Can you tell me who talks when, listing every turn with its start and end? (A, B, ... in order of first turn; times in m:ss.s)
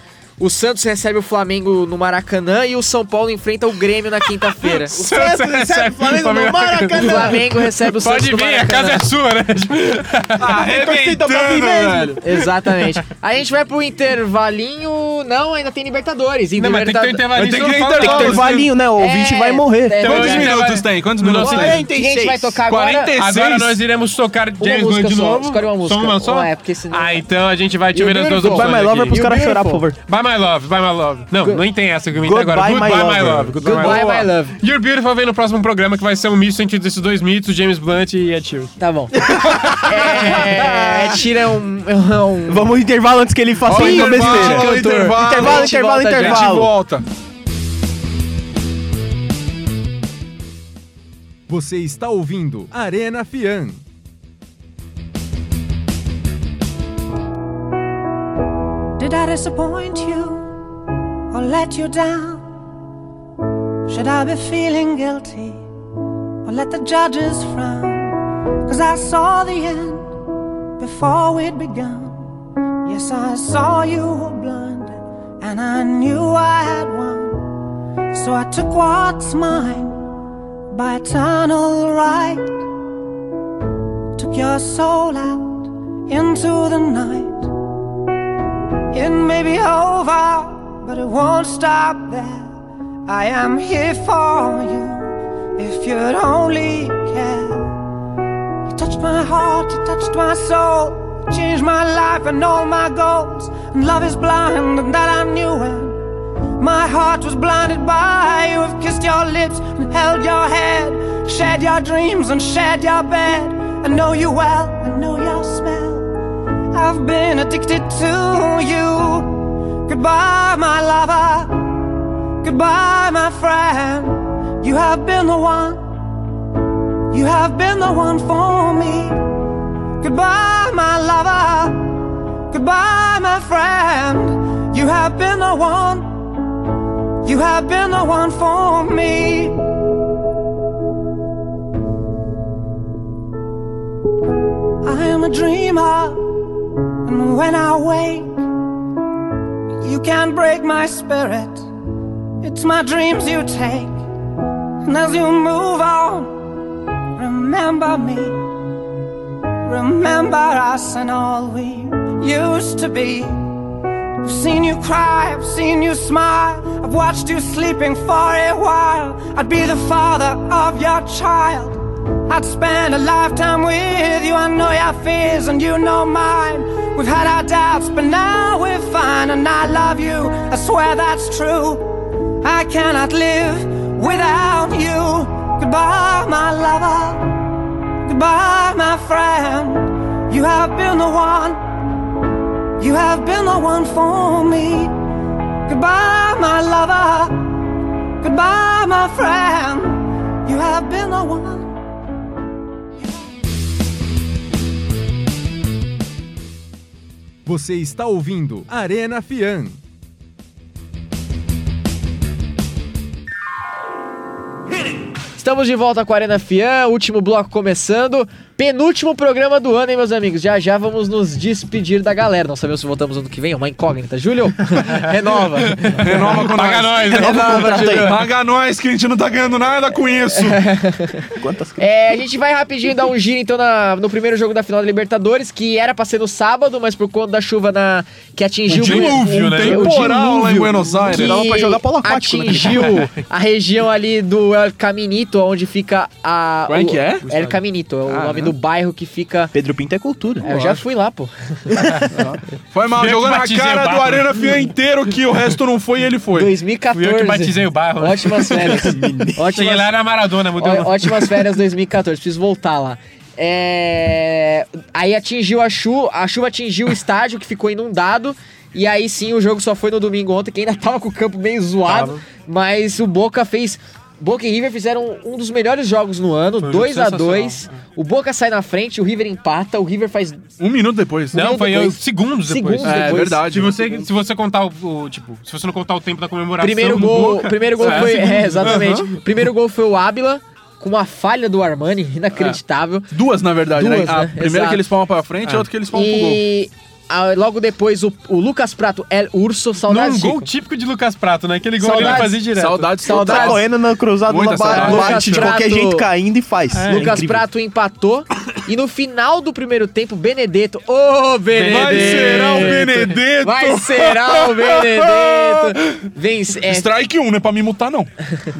0:00.4-0:05.0 A
0:04.4-0:10.6 B
0:04.9-0:07.7 C
0:07.0-0:09.1 A
0:10.4-0:12.2 D
0:10.6-0:12.2 C
0:12.2-0:17.2 A
0:16.6-0:18.6 B
0:17.3-0:18.6 D
0:18.0-0:20.1 C
0:19.0-0:20.6 A
0:20.0-0:21.8 D
0:20.0-0:21.8 B
0:21.4-0:22.6 C
0:21.9-0:23.1 A
0:22.7-0:23.8 D
0:23.2-0:29.4 B
0:24.6-0:27.2 A
0:27.9-0:30.0 C
0:28.0-0:29.8 A
0:30.1-0:38.7 B
0:32.1-0:34.1 C
0:33.6-0:34.6 A
0:38.8-0:42.7 A
0:39.2-0:41.2 C
0:42.5-0:46.7 C
0:43.6-0:47.0 D
0:43.7-0:46.5 A
0:51.5-0:53.8 E
0:59.0-1:00.5 F
1:01.3-1:02.4 F
1:03.9-1:05.6 F
1:06.4-1:10.1 F
1:10.8-1:12.2 F
1:12.8-1:17.5 F
1:18.1-1:20.0 F
1:20.7-1:22.6 F
1:24.2-1:27.5 F
1:28.9-1:32.5 F
1:33.1-1:37.7 F
1:38.6-1:46.0 F
1:46.6-1:56.1 F
1:56.7-2:01.6 F
2:02.4-2:05.8 F
2:07.1-2:09.2 F
2:10.0-2:16.1 F
2:17.2-2:19.6 F
2:24.8-2:26.2 F
2:27.0-2:28.4 F
2:29.8-2:31.7 F
2:32.4-2:34.0 F
2:34.8-2:36.5 F
2:37.2-2:38.4 F
2:39.6-2:43.4 F
2:44.2-2:51.8 F
2:52.3-3:01.9 F
3:02.4-3:07.2 F
3:08.0-3:11.6 F
3:12.8-3:14.9 F
3:15.7-3:17.5 F
3:18.2-3:21.8 F
3:27.4-3:29.8 E
3:35.4-3:46.5 A
3:45.6-3:48.2 B
3:46.0-3:50.6 D
3:47.1-3:48.2 C
3:50.4-4:00.2 A
3:51.3-3:51.9 C
3:58.7-4:00.6 B
3:58.8-4:01.4 D
4:00.2-4:03.1 C
4:01.0-4:09.5 A
4:02.5-4:03.1 B
4:06.7-4:07.2 D
4:07.2-4:07.6 B
4:08.1-4:08.5 D
4:09.5-4:10.5 C
4:10.4-4:12.0 A
4:10.4-4:10.8 D
4:11.8-4:12.0 B
4:12.1-4:16.5 D
4:12.9-4:14.6 B
4:16.3-4:20.0 A
4:16.9-4:21.5 B
4:20.6-4:40.4 A
4:31.9-4:32.2 B
4:36.6-4:37.8 B
4:40.6-4:41.4 D
4:41.3-4:49.2 B
4:41.3-4:43.4 A
4:42.8-4:44.1 D
4:46.6-4:53.1 A
4:46.9-4:48.9 D
4:53.1-4:56.4 D
4:53.7-4:54.8 A
4:55.9-5:00.5 A
4:59.9-5:03.1 B
5:01.8-5:02.4 A
5:01.9-5:03.7 D
5:03.0-5:03.6 A
5:03.2-5:07.5 C
5:04.2-5:05.4 D
5:04.6-5:06.1 A
5:04.8-5:05.3 B
5:06.7-5:07.1 B
5:06.9-5:16.9 A
5:11.5-5:13.1 B
5:11.6-5:16.0 D
5:16.6-5:18.1 D